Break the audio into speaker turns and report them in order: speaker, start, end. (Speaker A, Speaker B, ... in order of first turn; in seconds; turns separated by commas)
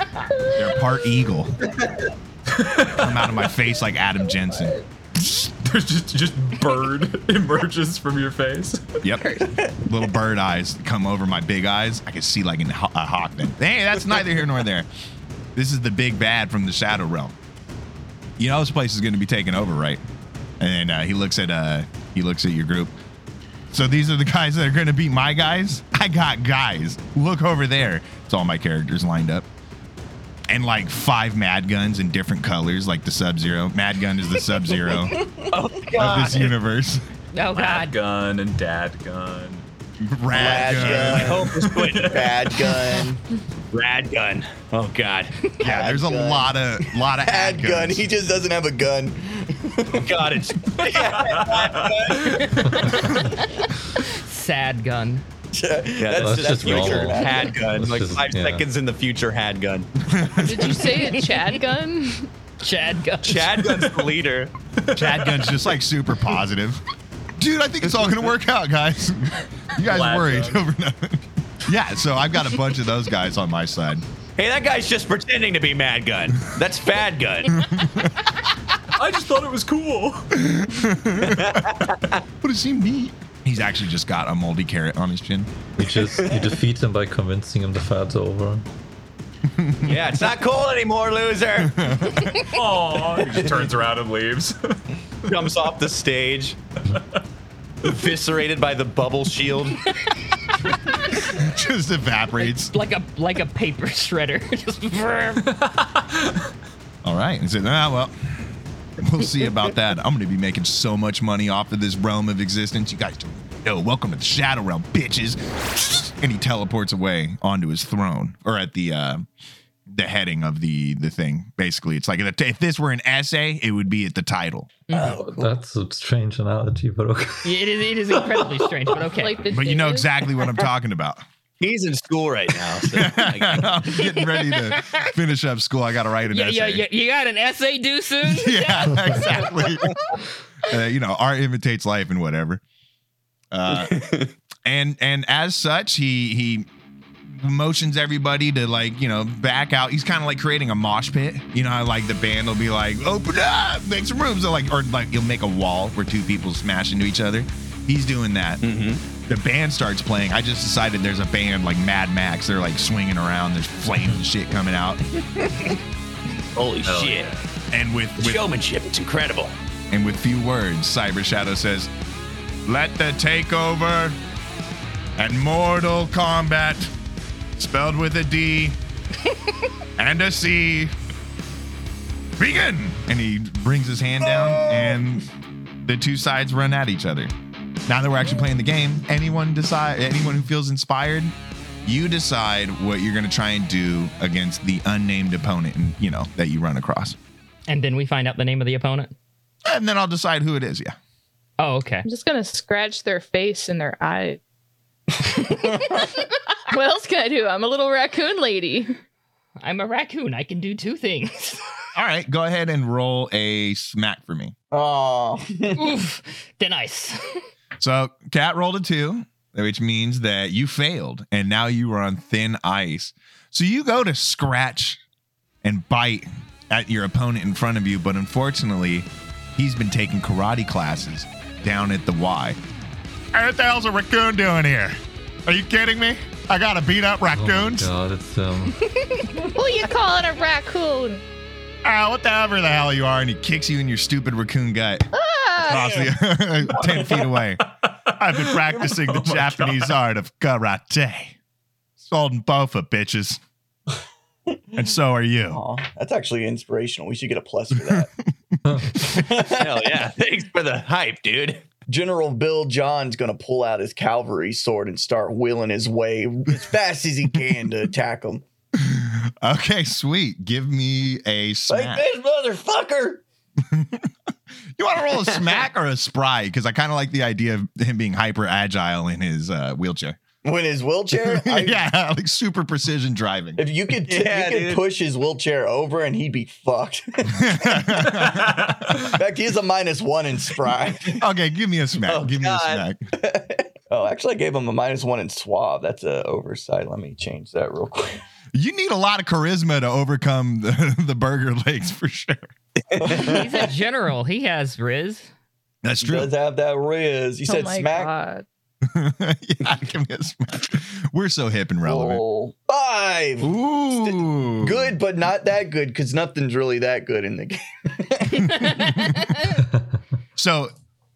Speaker A: 0.5-1.6, Speaker B: 2.5-3.3, Speaker A: 3.0-4.8, Speaker B: 5.5-9.1, Speaker A: 9.0-14.9, Speaker C: 9.4-9.8, Speaker A: 15.6-17.4, Speaker A: 18.4-20.0, Speaker A: 20.6-22.9, Speaker A: 23.7-29.5, Speaker A: 30.5-35.2, Speaker C: 35.0-35.5, Speaker D: 35.5-36.5, Speaker A: 35.9-37.0, Speaker E: 37.3-37.9, Speaker B: 37.5-39.7, Speaker A: 40.0-41.4, Speaker C: 40.3-43.2, Speaker D: 40.4-42.4, Speaker B: 41.5-42.3, Speaker D: 43.7-45.4, Speaker C: 45.6-46.6, Speaker A: 45.6-48.1, Speaker C: 47.1-50.1, Speaker D: 49.9-52.2, Speaker C: 50.8-51.1, Speaker B: 51.1-52.8, Speaker C: 51.8-52.5, Speaker E: 53.0-55.2, Speaker C: 55.5-57.7, Speaker D: 56.0-59.9, Speaker F: 56.1-58.7, Speaker A: 60.1-61.0, Speaker G: 60.4-62.3, Speaker E: 60.8-61.4, Speaker E: 62.6-63.5, Speaker D: 63.2-64.5, Speaker B: 64.9-65.6, Speaker A: 65.0-66.8, Speaker A: 67.4-74.0, Speaker B: 69.8-70.7, Speaker D: 74.4-77.5, Speaker A: 77.5-78.3, Speaker B: 79.0-80.3, Speaker A: 80.3-81.7, Speaker D: 81.2-82.2, Speaker A: 82.4-85.5, Speaker F: 85.8-88.7, Speaker A: 89.5-90.0, Speaker D: 89.8-91.8, Speaker A: 91.7-92.4, Speaker B: 92.5-94.8, Speaker D: 95.3-96.6, Speaker D: 97.8-99.8, Speaker A: 101.3-102.7, Speaker E: 102.4-105.5, Speaker B: 105.5-106.4, Speaker A: 107.0-119.3, Speaker A: 119.9-124.7, Speaker E: 124.9-125.2, Speaker C: 124.9-125.5, Speaker F: 125.1-127.6, Speaker E: 127.4-129.4, Speaker G: 129.1-130.1, Speaker A: 129.5-131.2, Speaker D: 131.6-133.8, Speaker A: 132.9-136.8, Speaker E: 134.0-135.1, Speaker E: 136.3-139.5, Speaker A: 138.2-140.0, Speaker A: 140.6-142.6, Speaker A: 143.5-144.0, Speaker D: 143.8-144.3, Speaker A: 144.7-146.7, Speaker A: 147.3-158.6, Speaker D: 158.6-159.0, Speaker A: 159.3-165.0, Speaker D: 166.6-167.3, Speaker F: 166.9-167.2, Speaker A: 167.7-168.4, Speaker D: 168.2-169.6, Speaker A: 169.9-171.9, Speaker A: 172.7-174.2, Speaker A: 175.2-176.9, Speaker A: 177.6-178.8, Speaker A: 180.0-180.9, Speaker A: 182.4-185.3, Speaker C: 184.3-185.0, Speaker A: 185.8-187.3, Speaker A: 187.9-197.2, Speaker E: 197.7-199.1, Speaker A: 199.7-201.0, Speaker E: 201.6-202.1, Speaker G: 202.1-204.4, Speaker C: 205.4-206.0, Speaker G: 205.8-208.9, Speaker E: 209.6-211.6, Speaker A: 211.9-214.5, Speaker C: 214.7-215.8, Speaker E: 215.8-217.4, Speaker A: 217.8-225.0, Speaker A: 225.6-232.6, Speaker A: 233.3-237.9, Speaker F: 237.4-238.8, Speaker G: 239.4-241.2, Speaker A: 241.8-251.4, Speaker G: 245.1-245.9, Speaker C: 245.7-246.1, Speaker C: 246.8-247.2, Speaker B: 247.8-250.0, Speaker A: 252.0-253.4, Speaker C: 254.5-254.8, Speaker A: 254.8-255.6, Speaker C: 255.5-258.1, Speaker A: 257.8-258.3, Speaker C: 258.9-260.0, Speaker D: 259.4-261.6, Speaker C: 261.9-268.4, Speaker A: 268.8-272.1, Speaker C: 271.7-273.2, Speaker A: 273.6-274.1, Speaker A: 274.8-280.2, Speaker C: 280.4-281.8, Speaker A: 281.1-283.6, Speaker C: 283.6-288.4, Speaker D: 284.1-284.9, Speaker A: 287.4-288.6, Speaker B: 288.3-289.1, Speaker C: 288.9-291.2, Speaker A: 291.2-293.0, Speaker D: 292.1-292.8, Speaker C: 293.2-298.2, Speaker A: 298.5-302.5, Speaker C: 303.0-303.7, Speaker E: 303.1-305.3, Speaker A: 305.8-306.3, Speaker C: 306.0-308.1, Speaker G: 307.5-308.4, Speaker A: 308.8-312.2, Speaker C: 311.9-319.1, Speaker A: 313.4-314.9, Speaker A: 318.6-319.3, Speaker A: 320.4-320.7